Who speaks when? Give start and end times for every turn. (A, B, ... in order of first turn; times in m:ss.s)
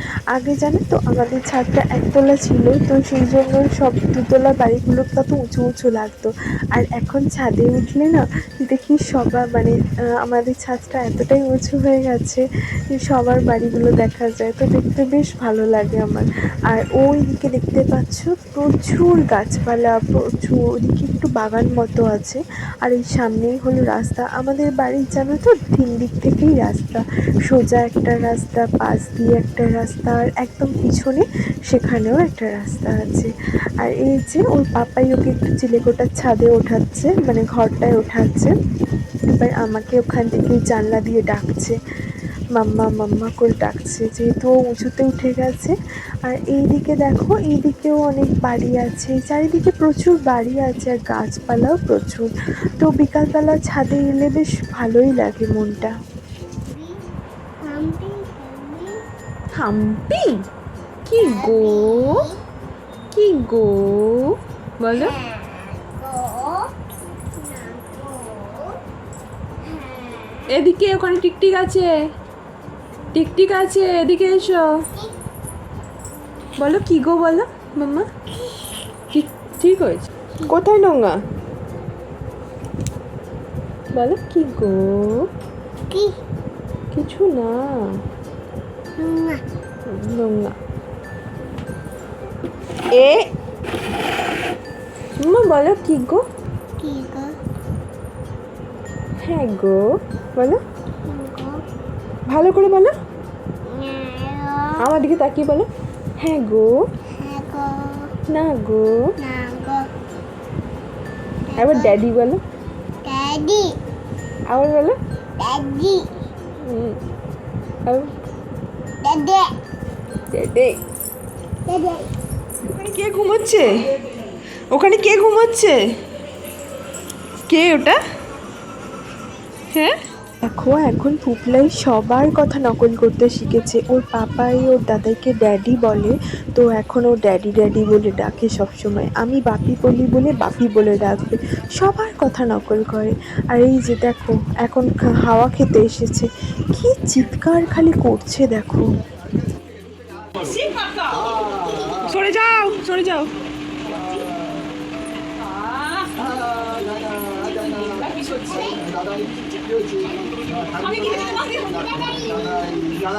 0:00.3-0:33.3 A
0:33.8-0:38.5 A
0:39.3-0:41.7 A
0:42.6-0:55.9 A
0:56.7-0:57.0 B
0:57.6-0:59.0 B
0:59.5-1:00.4 C
1:01.1-1:02.3 C
1:01.2-1:02.3 B
1:03.1-1:05.2 C
1:05.0-1:06.7 B
1:07.4-1:08.8 B
1:09.6-1:10.6 B
1:10.5-1:11.9 C
1:13.1-1:14.8 C
1:16.6-1:18.1 C
1:19.1-1:21.2 C
1:23.9-1:25.3 C
1:25.9-1:26.2 B
1:26.9-1:27.6 C
1:29.0-1:29.4 B
1:29.9-1:30.5 C
1:32.9-1:33.3 C
1:35.2-1:36.2 C
1:36.8-1:37.3 B
1:39.2-1:39.8 C
1:40.4-1:40.6 C
1:41.1-1:41.6 B
1:42.3-1:42.9 C
1:43.6-1:44.9 B
1:44.8-1:45.7 C
1:46.2-1:46.9 C
1:47.2-1:48.1 B
1:48.3-1:49.2 C
1:49.2-1:49.9 B
1:51.5-1:52.0 B
1:51.6-1:52.4 C
1:53.0-1:53.8 B
1:54.5-1:55.0 C
1:55.4-1:56.2 B
1:56.6-1:57.0 C
1:59.0-1:59.5 B
2:00.3-2:00.8 C
2:01.7-2:02.1 B
2:02.6-2:03.9 C
2:04.7-2:05.8 C
2:07.5-2:08.0 C
2:10.4-2:28.8 A
2:30.4-2:33.3 C
2:33.9-2:34.2 C
2:37.4-2:38.8 C
2:40.9-2:42.5 C